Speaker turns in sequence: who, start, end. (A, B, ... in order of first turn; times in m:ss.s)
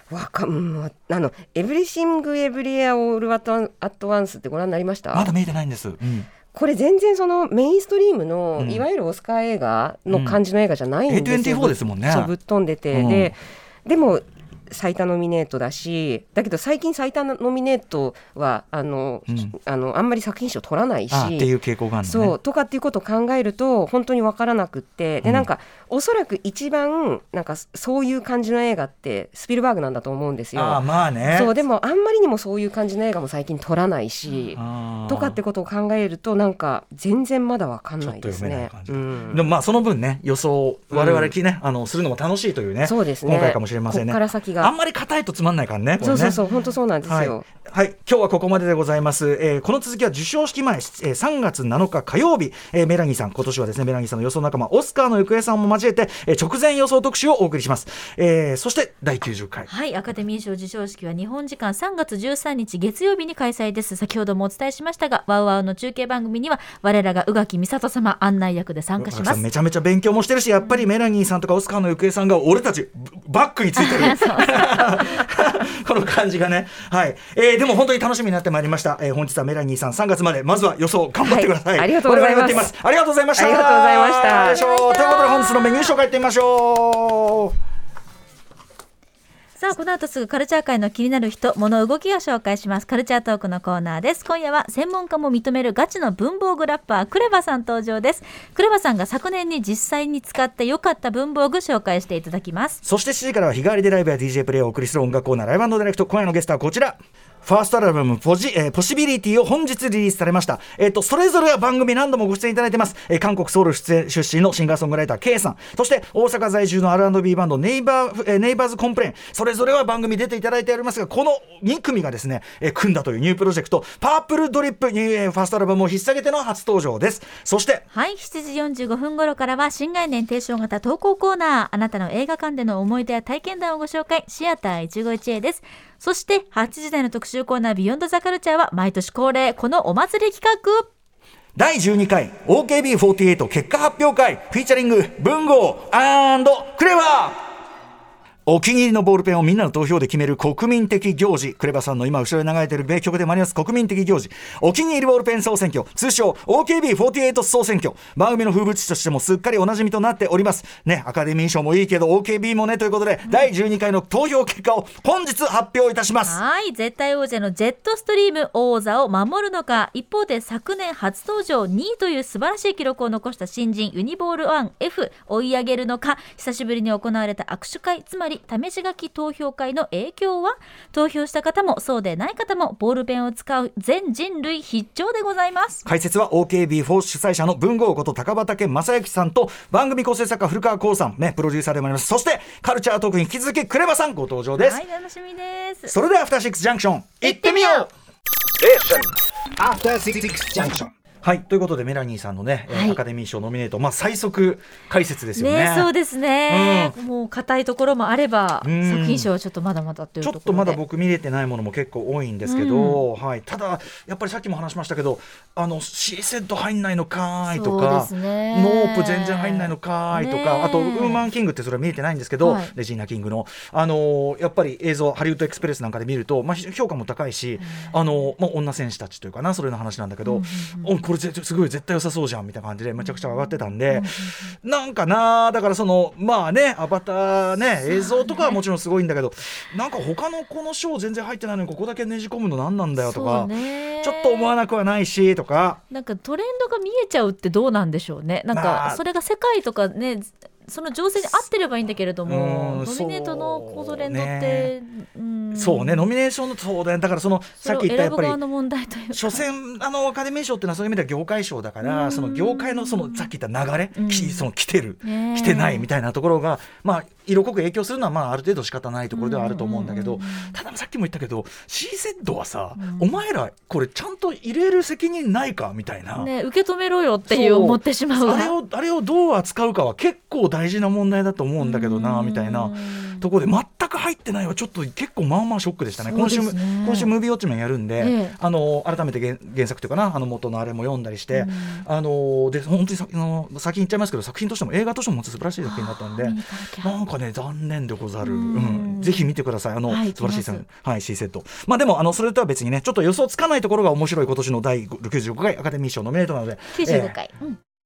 0:00.1-0:05.3 A
0:05.1-0:06.3 B
0:06.5-0:21.5 A
0:08.6-0:08.8 B
0:10.1-0:10.4 B
0:11.1-0:12.3 B
0:12.9-0:13.3 B
0:19.3-0:19.5 B
0:21.1-0:22.4 B
0:22.0-0:39.4 A
0:30.5-0:31.6 B
0:34.6-0:35.4 B
0:38.0-0:46.4 B
0:40.9-0:41.3 A
0:42.8-0:44.7 A
0:46.0-0:47.4 A
0:46.2-0:46.6 C
0:47.0-0:59.7 B
0:59.7-1:09.4 C
1:09.0-1:27.5 B
1:13.8-1:15.3 C
1:21.2-1:22.7 A
1:23.3-1:24.6 A
1:24.3-1:25.9 C
1:29.6-1:42.8 C
1:42.8-2:07.8 B
2:07.9-2:20.9 C
2:21.6-2:27.4 B
2:28.4-2:46.4 B
2:46.2-3:05.8 C
3:05.8-3:14.8 B
3:14.6-3:15.9 C
3:15.9-3:17.9 B
3:17.2-3:17.9 C
3:18.6-3:20.9 D
3:21.2-3:25.9 B
3:22.7-3:23.0 C
3:25.4-3:30.8 C
3:26.5-3:27.0 B
3:28.6-3:29.3 B
3:30.2-4:05.8 B
3:32.4-3:33.0 C
3:37.4-3:41.2 C
3:42.4-3:42.7 C
3:47.6-3:47.9 C
3:50.2-3:50.9 C
3:53.9-3:54.5 C
3:57.9-3:58.6 C
4:03.0-4:04.5 C
4:05.9-4:16.1 C
4:08.5-4:09.0 B
4:12.2-4:14.7 B
4:15.5-4:18.4 B
4:17.6-4:19.4 C
4:19.1-4:36.3 B
4:21.8-4:23.3 C
4:23.9-4:24.4 C
4:25.0-4:25.8 C
4:29.1-4:30.6 C
4:32.8-4:33.1 C
4:36.2-4:38.5 C
4:37.3-5:07.1 B
4:41.6-4:43.3 C
4:46.0-4:47.1 C
4:48.0-4:48.3 C
4:51.3-4:51.8 C
4:55.6-4:56.9 C
4:58.2-4:59.3 C
4:59.9-5:00.6 C
5:06.7-5:07.6 C